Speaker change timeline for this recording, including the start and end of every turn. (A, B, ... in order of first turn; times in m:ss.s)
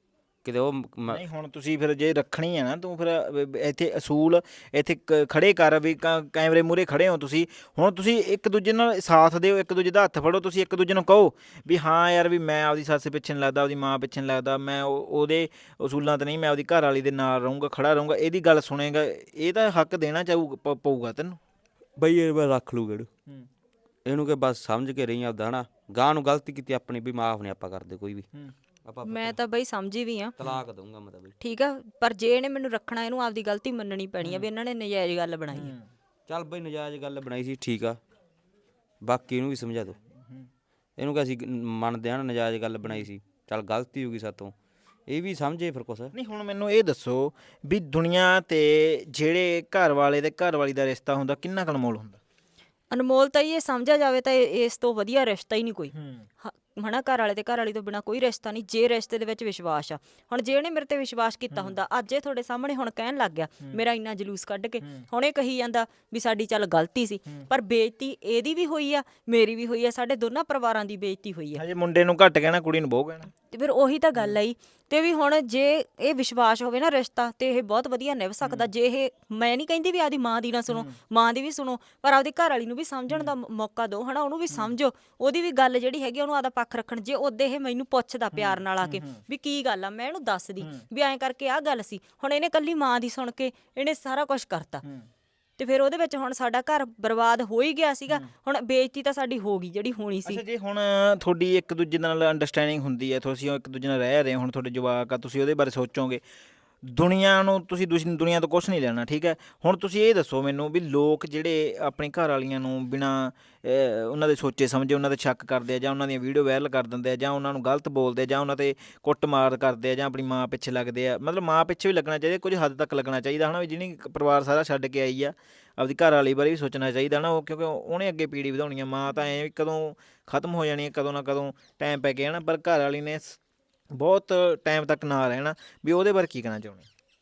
0:00.4-0:01.2 A
0:01.1-0:21.4 B
0:22.0-0:23.1 A
0:24.1-0:28.2 A
0:28.8-0:29.4 A
0:29.0-0:30.4 C
0:30.4-0:31.3 A
0:31.4-0:35.7 C
0:35.5-0:35.9 B
0:36.3-0:38.0 A
0:39.0-0:40.0 A
0:40.1-0:40.5 B
0:41.0-0:44.5 A
0:45.1-0:46.1 A
0:46.1-0:52.2 B
0:52.9-1:11.6 C
0:55.9-0:56.3 B
1:11.6-1:13.3 B
1:13.5-1:34.8 C
1:18.4-1:18.7 B
1:20.7-1:21.0 B
1:28.3-1:29.2 B
1:35.6-1:40.4 C
1:40.2-1:46.2 B
1:46.8-2:13.4 B
2:13.9-2:16.9 B